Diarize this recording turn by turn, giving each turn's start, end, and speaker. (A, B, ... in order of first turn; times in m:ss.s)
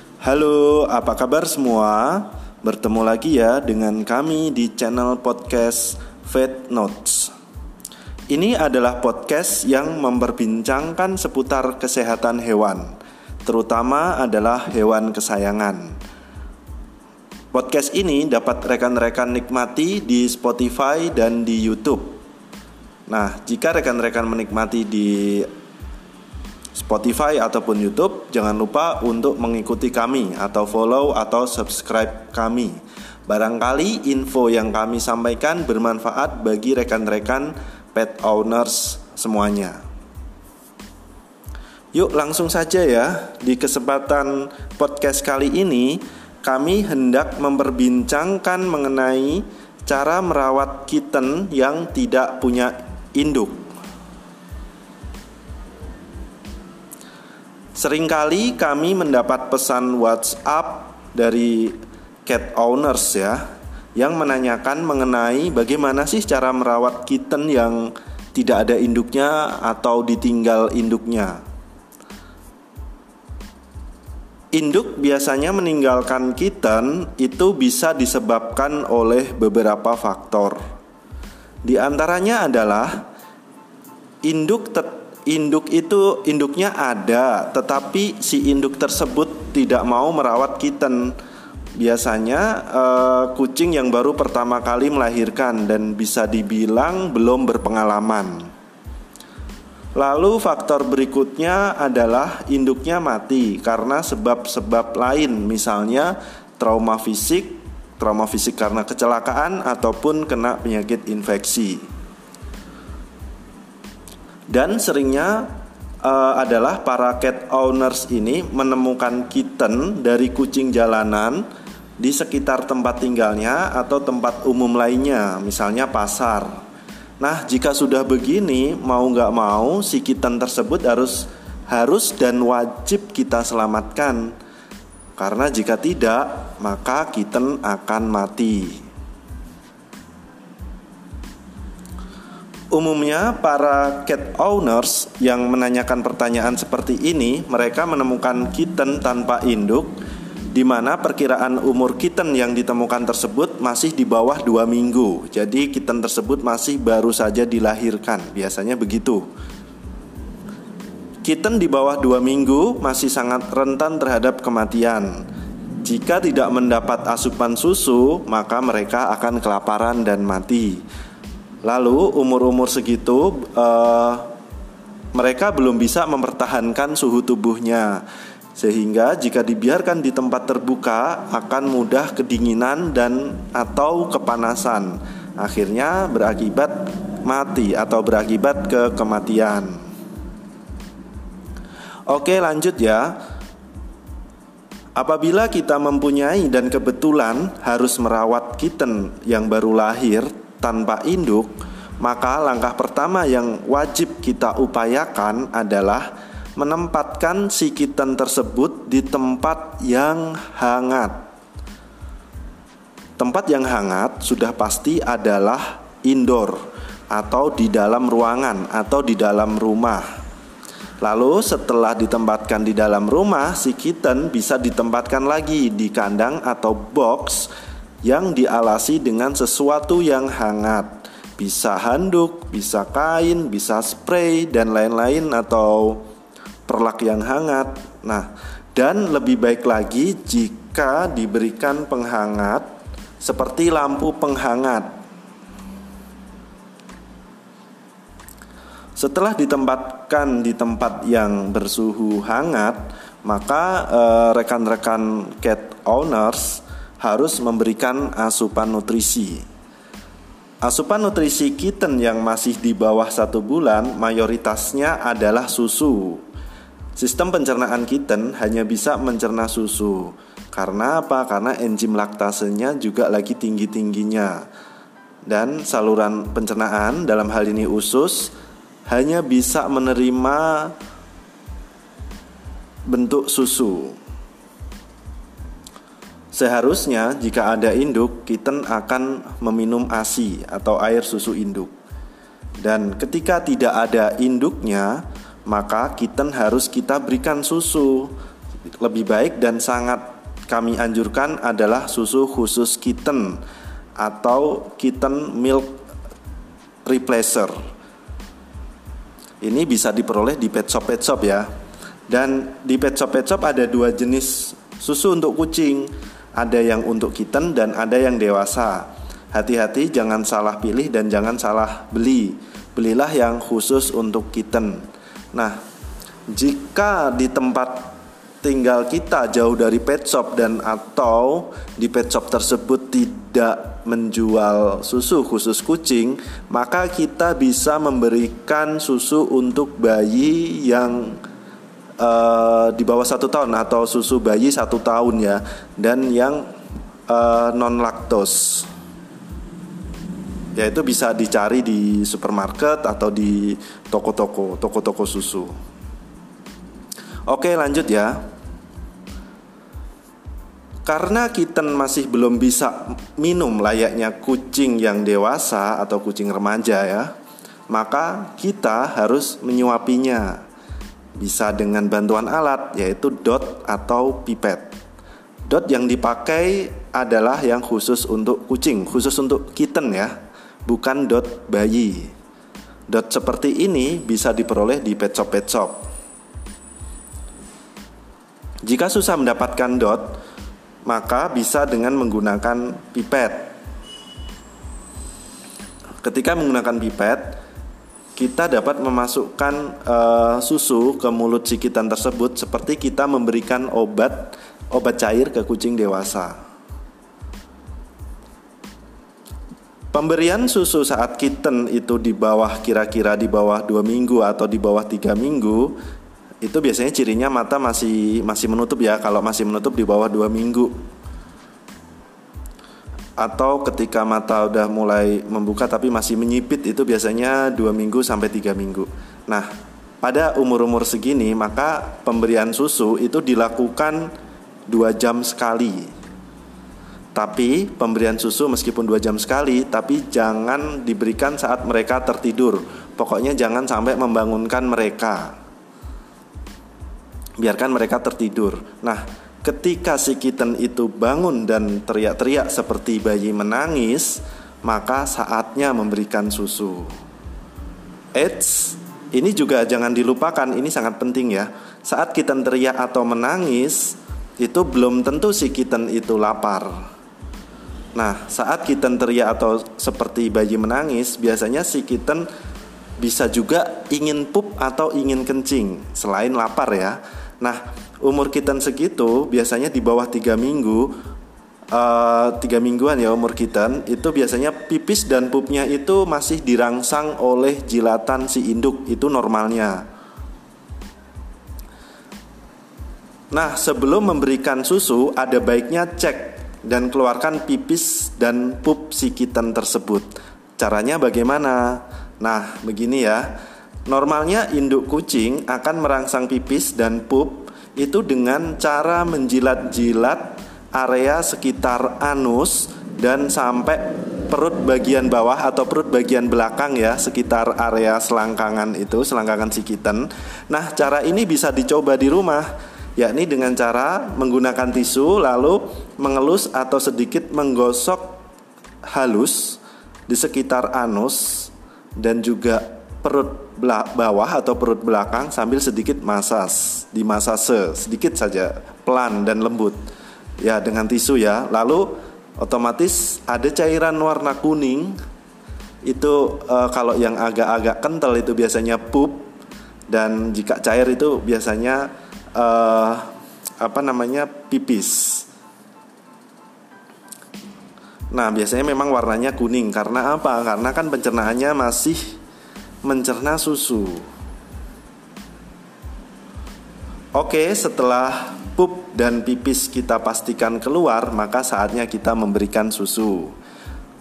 0:00.2-0:07.3 A
0:08.3-0:16.0 A
0:17.5-0:22.2 A
0:23.1-0:25.5 A
0:26.7-0:39.8 A
0:41.9-0:53.7 A
0:57.8-1:03.4 A
1:04.0-1:11.4 A
1:14.5-1:20.6 A
1:21.6-1:23.1 A
1:24.2-1:31.2 A
1:31.8-1:38.5 A
1:40.0-1:51.9 A
1:54.5-1:55.5 A
1:56.0-2:01.5 A
2:02.0-2:06.5 A
2:07.2-2:14.3 A
2:15.2-2:18.8 A
2:22.7-2:30.0 A
2:30.5-2:39.3 A
2:41.2-2:45.2 A
2:45.8-2:50.8 A
2:51.6-2:54.3 A
2:55.1-2:58.0 A
2:58.6-3:09.8 A
3:12.1-3:13.2 A
3:15.0-3:31.3 A
3:33.2-3:36.6 A
3:37.1-3:40.0 A
3:41.0-3:47.5 A
3:48.0-3:56.0 A
3:56.7-4:02.7 A
4:03.2-4:04.9 A
4:09.0-4:19.4 A
4:20.6-4:26.2 A
4:27.0-4:34.5 A
4:35.3-4:38.3 A
4:38.9-4:40.7 A
4:42.9-4:44.0 A
4:46.3-4:51.7 A
4:52.6-4:58.1 A
4:58.8-5:03.4 A
5:04.0-5:05.8 A
5:06.8-5:07.6 A
5:09.4-5:11.5 A
5:12.1-5:25.6 A
5:26.3-5:41.2 A
5:42.0-5:46.5 A
5:47.1-5:48.7 A
5:50.6-5:55.6 A
5:57.3-5:58.2 A
6:00.9-6:07.1 A
6:07.7-6:10.4 A
6:11.2-6:14.7 A
6:15.5-6:20.2 A
6:20.7-6:22.1 A
6:22.9-6:25.8 A
6:28.6-6:30.2 A
6:30.8-6:33.5 A
6:36.0-6:37.4 A
6:38.2-6:46.4 A
6:49.9-6:55.8 A
6:56.4-7:00.8 A
7:03.2-7:09.5 A
7:10.0-7:14.1 A
7:14.7-7:15.9 A
7:17.2-7:25.4 A
7:27.4-7:36.9 A
7:38.1-7:46.8 A
7:48.0-7:52.3 A
7:53.0-8:01.0 A
8:01.7-8:09.8 A
8:13.3-8:23.3 A
8:23.9-8:42.5 A
8:43.0-8:48.2 A
8:48.9-8:59.8 A
9:00.4-9:05.0 A
9:05.9-9:09.3 A
9:09.9-9:13.1 A
9:13.6-9:15.3 A
9:18.1-9:22.2 A
9:22.8-9:24.1 A
9:27.2-9:33.4 A